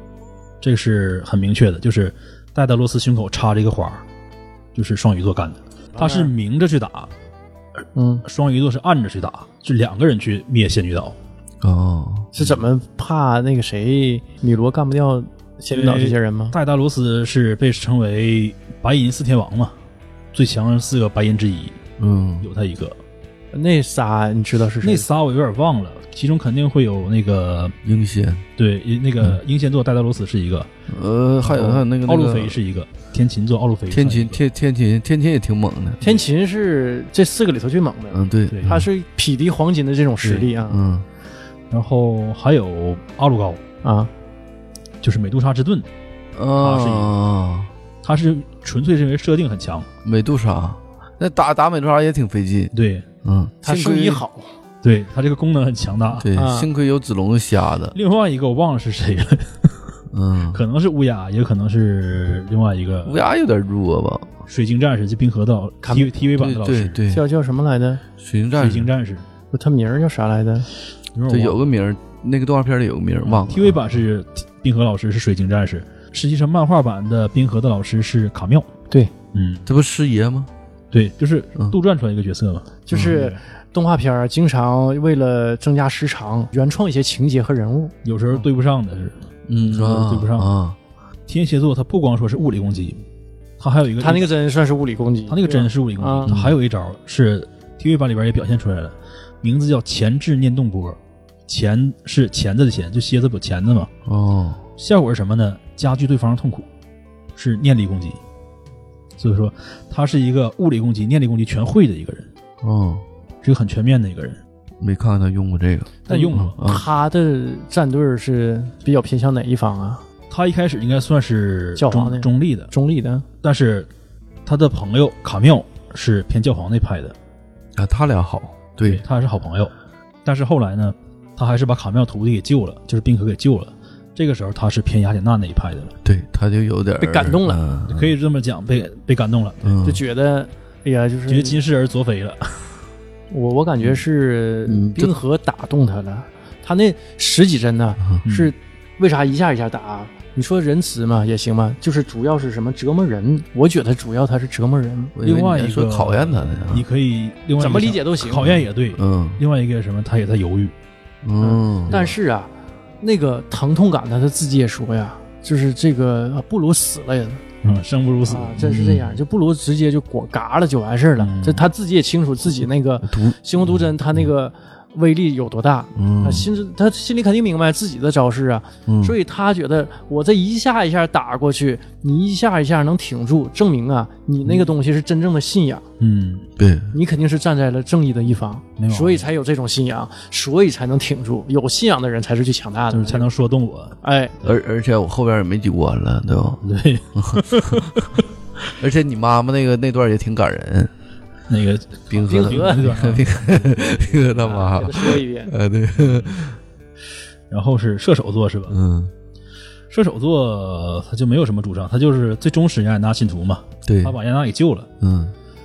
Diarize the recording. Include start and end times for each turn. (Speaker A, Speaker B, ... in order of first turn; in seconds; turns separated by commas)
Speaker A: 0.6-4.0, Speaker A: 4.7-7.1, Speaker B: 5.9-6.3, Speaker B: 7.9-8.2, Speaker A: 8.2-11.2, Speaker C: 11.6-12.4, Speaker B: 12.3-16.6, Speaker A: 15.7-19.7, Speaker A: 20.3-21.8, Speaker C: 22.0-22.5, Speaker A: 22.4-23.0, Speaker B: 23.5-25.1, Speaker A: 24.8-27.8, Speaker C: 27.8-28.4, Speaker A: 28.6-30.7, Speaker C: 30.9-32.6, Speaker A: 31.4-34.4, Speaker C: 33.9-36.0, Speaker B: 36.0-40.8, Speaker C: 38.1-38.9, Speaker A: 38.5-38.8, Speaker C: 40.2-41.0, Speaker A: 41.7-43.6, Speaker B: 43.8-44.1, Speaker A: 45.0-45.9, Speaker C: 46.3-47.7, Speaker A: 46.6-47.1, Speaker A: 48.0-49.9, Speaker C: 50.0-52.7, Speaker A: 52.7-53.0, Speaker C: 53.2-54.2, Speaker B: 53.6-54.5, Speaker A: 54.8-56.3, Speaker C: 56.2-57.9, Speaker B: 56.3-56.7, Speaker A: 57.9-59.7, Speaker C: 60.1-60.6, Speaker A: 60.5-63.2, Speaker C: 63.0-64.3, Speaker A: 64.5-67.0, Speaker B: 65.8-66.1, Speaker C: 66.4-67.2, Speaker B: 67.1-68.0, Speaker C: 68.2-68.9, Speaker A: 68.5-69.2, Speaker B: 69.5-70.7, Speaker A: 71.1-71.6, Speaker C: 71.3-73.9, Speaker A: 73.2-78.7, Speaker A: 79.3-79.7, Speaker C: 79.7-80.5, Speaker A: 80.9-83.4, Speaker B: 82.9-87.9, Speaker A: 88.0-90.5, Speaker C: 89.5-90.8, Speaker A: 91.3-93.0, Speaker A: 93.6-94.3, Speaker B: 94.0-96.4, Speaker A: 95.3-103.9, Speaker C: 96.3-96.5, Speaker C: 104.0-104.6, Speaker A: 104.8-106.7, Speaker A: 107.3-108.2, Speaker A: 109.2-112.3, Speaker C: 112.6-113.0, Speaker A: 113.4-114.4, Speaker C: 114.8-116.8, Speaker A: 116.1-116.6, Speaker B: 116.1-120.0, Speaker A: 120.3-122.7, Speaker B: 121.8-123.2, Speaker A: 123.4-123.9, Speaker A: 124.5-127.1, Speaker C: 127.8-129.0, Speaker A: 128.8-129.7, Speaker A: 130.2-135.9, Speaker C: 136.0-138.1, Speaker B: 137.0-137.6, Speaker A: 137.9-139.8, Speaker C: 139.6-140.0, Speaker B: 139.8-141.6, Speaker A: 141.3-142.7, Speaker B: 143.3-155.1, Speaker C: 144.7-145.1, Speaker A: 148.2-148.5, Speaker C: 155.2-156.8, Speaker A: 155.2-160.7, Speaker B: 157.6-158.6, Speaker C: 158.9-159.4, Speaker C: 161.2-162.0, Speaker B: 161.4-167.4, Speaker A: 161.9-162.1, Speaker A: 167.6-168.8, Speaker B: 168.2-185.8, Speaker C: 168.6-169.2, Speaker A: 171.2-171.7, Speaker C: 173.1-174.3, Speaker C: 175.9-176.5, Speaker C: 178.9-179.2, Speaker A: 186.0-186.5, Speaker C: 186.6-186.9, Speaker B: 186.9-193.3, Speaker A: 188.8-189.3, Speaker A: 192.9-194.5, Speaker B: 194.0-194.3, Speaker C: 194.4-196.6, Speaker A: 196.6-198.2, Speaker C: 197.1-198.0, Speaker C: 198.8-200.9, Speaker A: 201.5-203.9, Speaker C: 202.1-206.6, Speaker B: 202.3-203.0, Speaker B: 203.9-205.5, Speaker A: 206.0-206.3, Speaker A: 207.5-208.8, Speaker C: 208.7-209.1, Speaker A: 209.9-214.9, Speaker C: 213.8-214.2, Speaker C: 215.0-215.3